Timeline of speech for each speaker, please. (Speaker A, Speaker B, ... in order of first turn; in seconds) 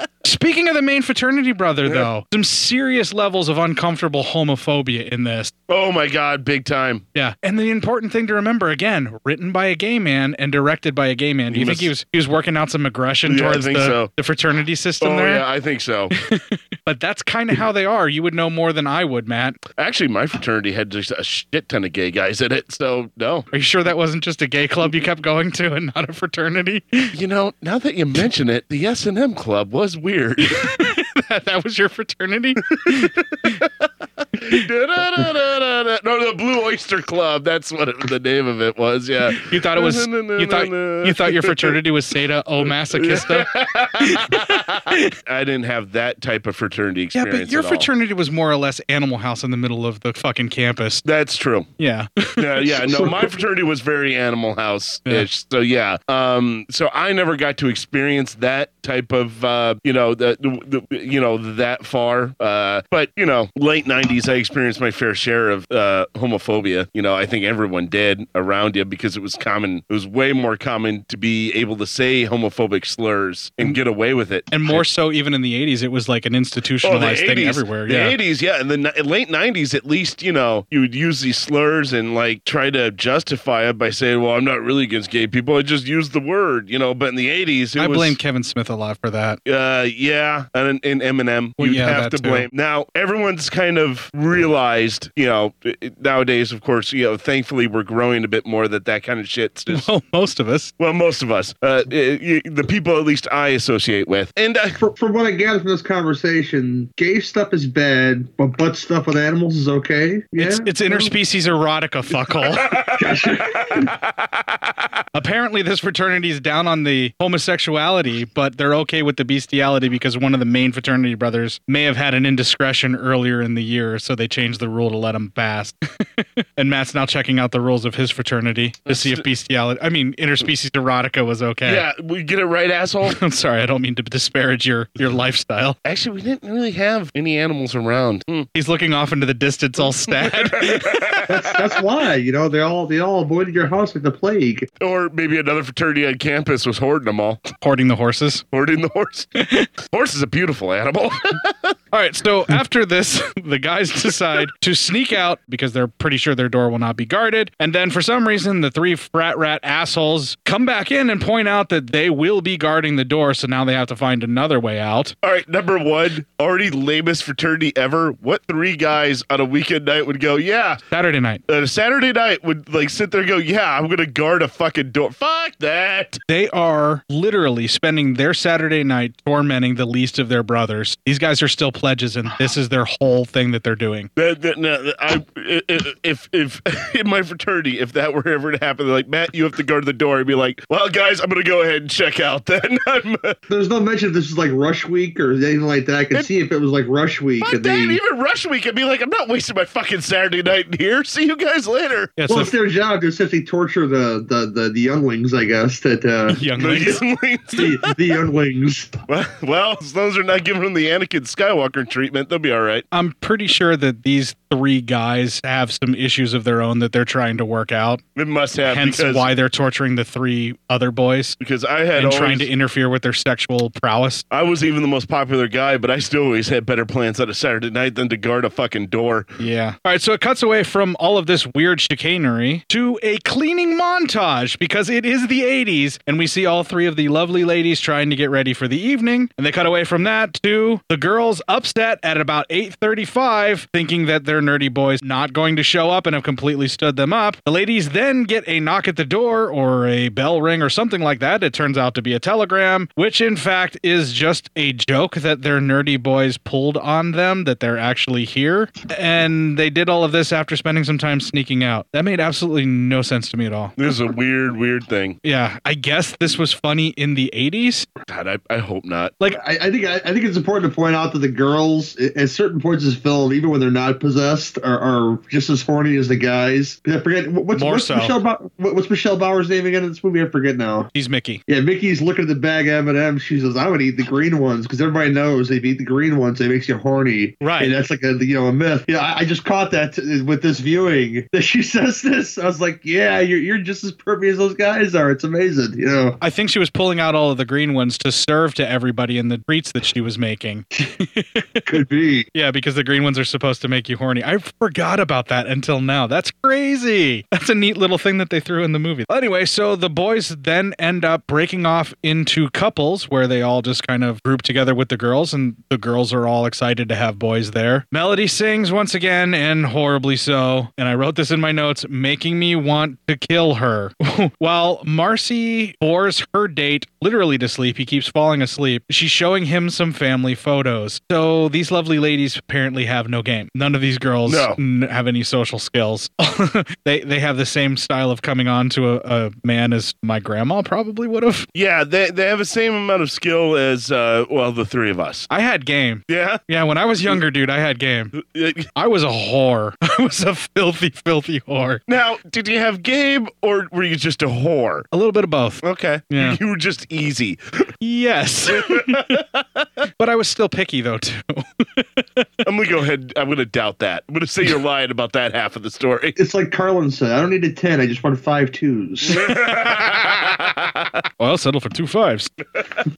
Speaker A: 0.2-5.5, 7.1-15.4, 16.3-19.6, 23.5-27.1, 30.6-33.6, 39.3-43.5, 44.0-45.1, 47.1-51.0, 51.8-53.1, 74.5-78.2, 87.8-89.4, 91.6-92.5, 99.7-100.7, 110.4-112.8, 115.1-131.8, 133.1-135.8, 138.5-141.2, 147.6-148.4, 151.9-165.1, 170.9-171.4, 176.3-184.1, 202.2-202.5, 206.3-207.0, 212.9-218.0, 218.7-221.4, 221.9-224.2, 229.4-263.8, 265.2-267.9, 277.5-278.1, 280.9-281.4, 287.4-287.7, 296.2-301.7, 302.3-341.5, 345.3-348.1, 348.8-351.8, 354.9-356.4, 357.8-359.2, 360.0-362.2, 369.2-370.0, 371.2-372.3
Speaker B: 5.7-7.0, 11.5-11.9, 13.2-14.1, 15.0-16.1, 19.8-23.5, 27.1-30.6, 34.4-41.8, 42.9-47.9, 51.0-51.7, 52.4-74.8, 76.8-88.2, 89.5-99.9, 100.8-104.8, 128.9-129.2, 131.6-133.2, 135.8-138.5, 139.8-141.3, 144.8-147.4, 148.5-149.3, 149.9-151.7, 165.2-170.8, 171.5-176.2, 184.2-193.3, 197.4-202.1, 206.6-207.7, 209.1-212.8, 218.2-219.3, 221.4-222.5, 224.3-229.3, 263.8-265.2, 268.1-269.1, 334.2-334.6, 341.5-345.3, 346.1-346.4, 348.1-348.7, 351.9-354.9, 355.6-357.4, 358.5-359.2, 362.4-366.1, 369.1-370.9
Speaker C: 104.8-111.1, 112.9-113.9, 141.3-144.7, 193.5-198.0, 202.3-206.4, 207.5-208.9, 269.4-280.9, 281.5-296.2, 301.7-302.3, 366.1-369.2